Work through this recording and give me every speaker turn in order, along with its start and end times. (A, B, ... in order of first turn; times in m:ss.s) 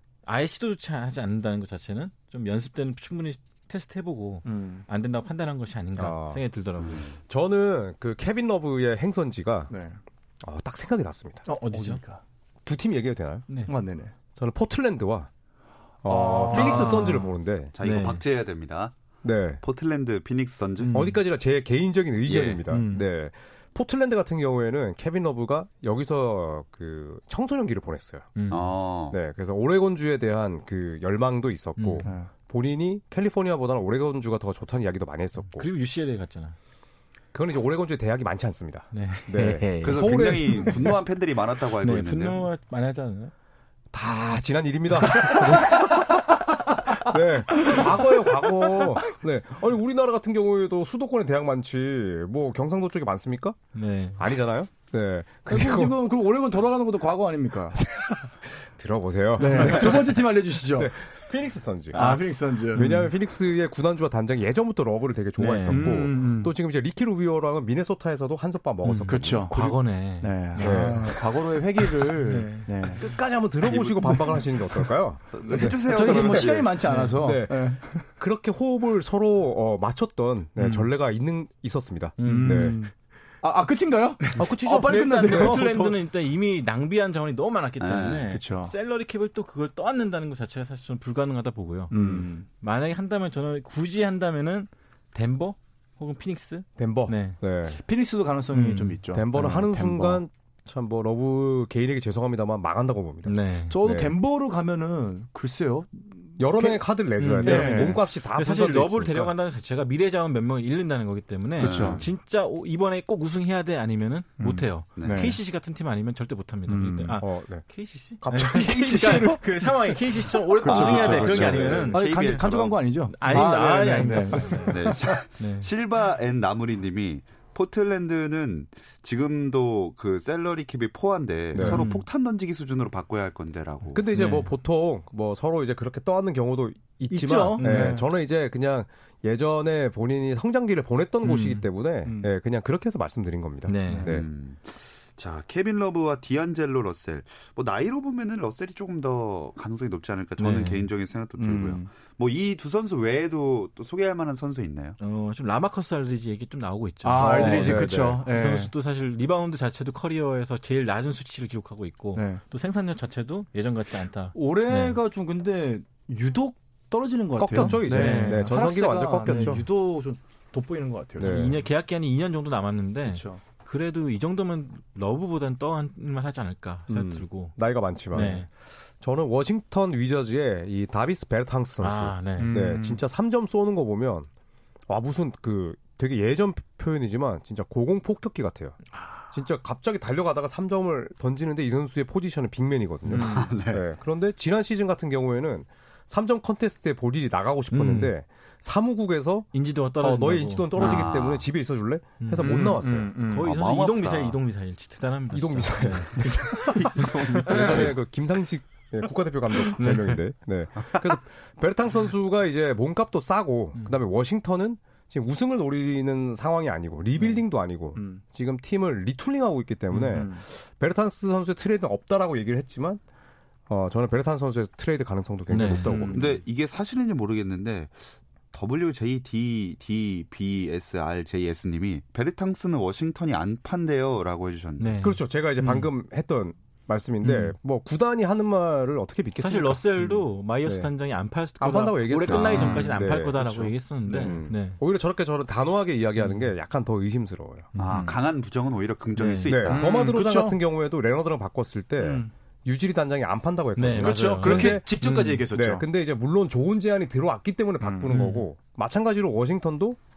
0:00.3-0:07.1 A
0:04.5-0:04.9 B
0:06.0-0:06.4 C
0:06.9-0:09.7 C
0:09.7-0:10.0 B
0:10.4-0:11.5 C
0:11.5-0:12.2 B
0:11.5-0:12.0 A
0:12.6-0:13.5 C
0:13.7-0:14.1 B
0:14.4-0:15.3 C
0:16.0-0:17.7 C
0:16.1-0:17.2 B
0:16.5-0:18.2 A
0:16.6-0:16.9 D
0:17.8-0:19.0 D
0:19.2-0:19.6 C
0:19.6-0:21.0 D
0:20.8-0:21.2 B
0:20.9-0:28.3 C
0:22.3-0:22.6 D
0:22.7-0:23.1 A
0:28.4-0:28.7 A
0:28.5-0:29.2 D
0:29.1-0:35.7 C
0:31.8-0:32.1 A
0:32.0-0:32.3 B
0:35.5-0:36.6 A
0:37.3-0:40.8 C
0:38.9-0:40.8 A
0:39.8-0:42.5 D
0:41.8-0:43.3 A
0:43.9-0:53.6 C
0:47.5-0:49.0 B
0:53.8-0:54.3 A
0:54.2-0:55.9 C
0:55.5-0:57.8 B
0:57.8-1:02.2 C
0:59.4-1:00.9 B
1:01.9-1:03.1 B
1:02.7-1:09.5 C
1:02.8-1:03.1 A
1:05.4-1:06.0 A
1:05.7-1:06.5 B
1:08.8-1:10.8 A
1:09.1-1:13.0 B
1:10.6-1:11.4 C
1:12.2-1:12.9 A
1:12.9-1:22.8 C
1:13.6-1:14.5 D
1:15.3-1:16.9 D
1:15.8-1:18.1 B
1:16.9-1:17.1 A
1:20.6-1:20.9 B
1:22.2-1:22.8 A
1:22.2-1:26.0 B
1:24.4-1:25.6 C
1:24.8-1:37.4 A
1:27.8-1:28.3 D
1:28.3-1:28.7 B
1:31.9-1:32.5 B
1:36.8-1:37.8 C
1:37.8-1:40.2 B
1:38.5-1:39.0 A
1:39.1-1:44.2 C
1:43.2-1:43.7 A
1:43.7-1:46.8 B
1:46.4-1:49.3 C
1:47.2-2:02.4 A
1:47.4-1:48.0 B
1:51.6-1:52.0 B
1:51.6-1:52.0 D
1:54.4-1:55.4 B
1:55.0-1:55.2 D
1:56.7-1:57.2 B
1:57.2-1:59.4 C
1:58.6-2:00.0 B
2:00.6-2:05.0 B
2:00.6-2:14.0 D
2:03.1-2:05.7 A
2:11.6-2:11.8 C
2:11.6-2:12.0 A
2:13.9-2:24.3 C
2:14.1-2:14.5 A
2:17.1-2:18.1 B
2:17.6-2:18.0 A
2:21.2-2:21.6 A
2:22.0-2:22.3 B
2:23.7-2:24.1 A
2:23.9-2:24.2 B
2:24.0-2:35.0 D
2:30.4-2:30.9 A
2:31.4-2:31.9 B
2:35.0-2:45.0 A
2:37.0-2:38.7 B
2:37.2-2:38.2 C
2:42.2-2:42.4 B
2:44.3-2:51.4 B
2:47.4-2:49.7 C
2:47.6-2:48.6 A
2:49.3-2:49.6 A
2:51.2-2:51.6 C
2:51.2-2:57.6 A
2:53.0-2:53.4 B
2:56.9-2:58.5 C
2:58.1-2:58.5 A
2:59.0-3:04.3 C
3:01.8-3:02.5 A
3:02.4-3:03.0 B
3:04.9-3:23.1 C
3:13.1-3:13.5 B
3:13.1-3:13.8 D
3:17.7-3:18.1 A
3:19.5-3:21.1 A
3:20.8-3:21.1 B
3:20.9-3:21.4 D
3:22.2-3:27.8 A
3:22.4-3:23.5 B
3:23.4-3:24.4 D
3:25.3-3:26.8 C
3:26.6-3:28.0 D
3:27.4-3:43.0 C
3:29.8-3:30.2 A
3:38.0-3:38.2 B
3:39.9-3:40.2 A
3:40.1-3:40.4 B
3:43.7-3:46.4 C
3:45.5-3:46.0 A
3:45.8-3:46.4 B
3:46.1-3:48.0 D
3:48.5-3:54.9 D
3:54.8-3:55.9 A
3:55.0-4:00.9 C
3:57.2-3:57.5 A
3:59.4-4:04.8 A
4:01.6-4:07.7 C
4:02.2-4:03.0 B
4:07.8-4:08.1 A
4:07.8-4:09.9 D
4:09.2-4:09.6 A
4:09.5-4:20.0 C
4:09.7-4:10.6 B
4:12.0-4:12.3 B
4:13.8-4:15.5 A
4:14.0-4:15.8 B
4:17.8-4:18.2 B
4:18.1-4:18.5 A